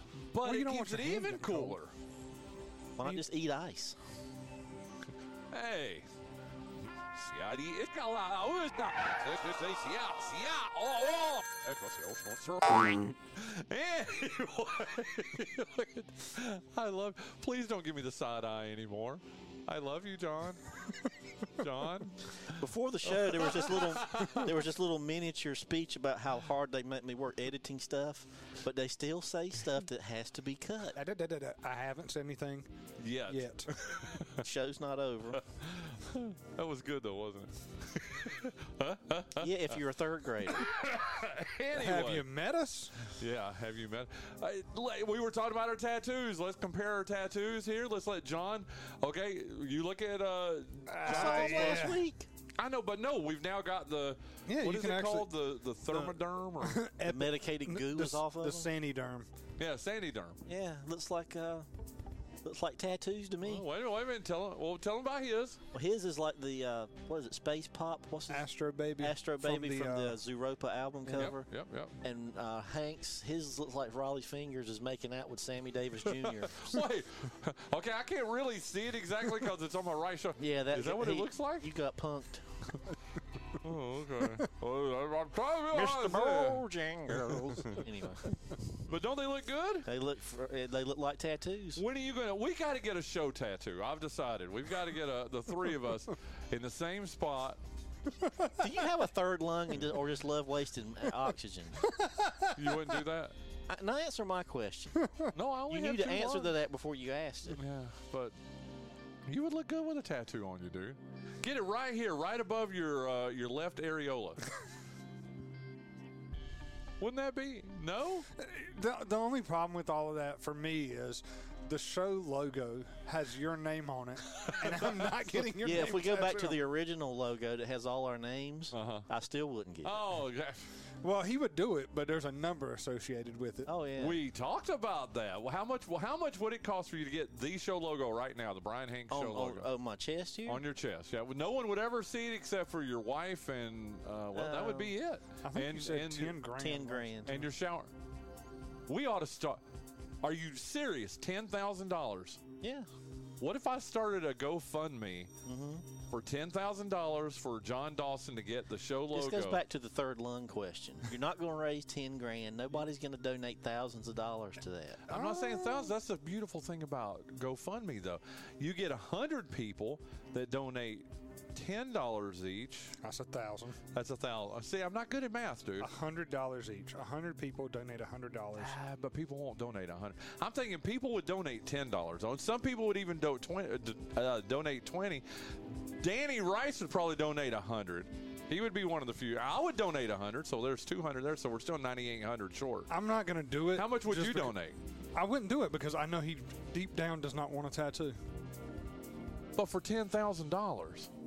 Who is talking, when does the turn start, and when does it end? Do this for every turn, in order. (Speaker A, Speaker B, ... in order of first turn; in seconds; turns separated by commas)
Speaker A: 0.3-1.9, Speaker B: 0.4-1.8, Speaker C: 3.0-4.0, Speaker A: 5.5-6.1, Speaker A: 7.1-20.8, Speaker A: 21.5-22.6, Speaker C: 22.6-31.0, Speaker A: 23.1-24.5, Speaker B: 31.0-32.7, Speaker A: 33.0-34.5, Speaker B: 33.3-33.7, Speaker C: 34.4-35.4, Speaker A: 35.3-39.8, Speaker C: 39.4-40.7, Speaker A: 40.5-42.2, Speaker B: 41.7-43.1, Speaker A: 43.0-52.0, Speaker B: 50.9-52.0, Speaker C: 51.1-52.3, Speaker A: 52.6-56.8, Speaker B: 54.5-55.3, Speaker B: 55.9-59.3, Speaker C: 57.1-58.7, Speaker A: 59.6-60.4, Speaker C: 60.5-61.7, Speaker C: 62.4-63.6, Speaker A: 63.4-65.6, Speaker C: 65.7-68.5, Speaker B: 68.3-70.2, Speaker C: 69.0-71.5, Speaker A: 71.1-72.0, Speaker C: 72.0-76.7, Speaker A: 76.0-81.7, Speaker C: 80.4-82.5, Speaker A: 83.6-86.6, Speaker C: 85.7-88.4, Speaker A: 87.6-87.8, Speaker A: 88.9-89.9, Speaker C: 89.8-91.8, Speaker A: 91.8-97.6, Speaker B: 98.1-98.7, Speaker C: 98.6-101.8, Speaker B: 101.9-103.0, Speaker A: 102.5-103.3, Speaker C: 103.7-105.1, Speaker A: 105.3-106.5, Speaker C: 105.7-107.6, Speaker A: 107.5-108.4, Speaker A: 109.3-114.5, Speaker A: 117.0-118.3, Speaker B: 118.4-126.6, Speaker A: 124.3-125.1, Speaker C: 125.6-130.0, Speaker A: 128.7-129.1, Speaker A: 129.8-130.7, Speaker B: 131.0-133.7, Speaker C: 133.7-134.2, Speaker A: 134.0-139.7, Speaker C: 139.1-140.6, Speaker A: 140.5-146.4, Speaker C: 144.3-144.9, Speaker B: 145.4-147.4, Speaker C: 146.6-147.4, Speaker A: 147.3-147.9, Speaker A: 148.9-149.6, Speaker A: 150.2-152.4, Speaker C: 152.6-152.9, Speaker A: 153.4-155.3, Speaker C: 155.4-155.8, Speaker A: 156.1-159.6, Speaker C: 159.1-165.1, Speaker A: 165.1-173.0, Speaker B: 165.1-165.9, Speaker B: 173.0-173.8, Speaker A: 173.9-175.9, Speaker B: 175.8-178.8, Speaker A: 178.6-185.2, Speaker A: 186.0-192.9, Speaker B: 192.9-194.5, Speaker A: 193.7-194.8, Speaker B: 195.2-198.2, Speaker A: 199.6-201.1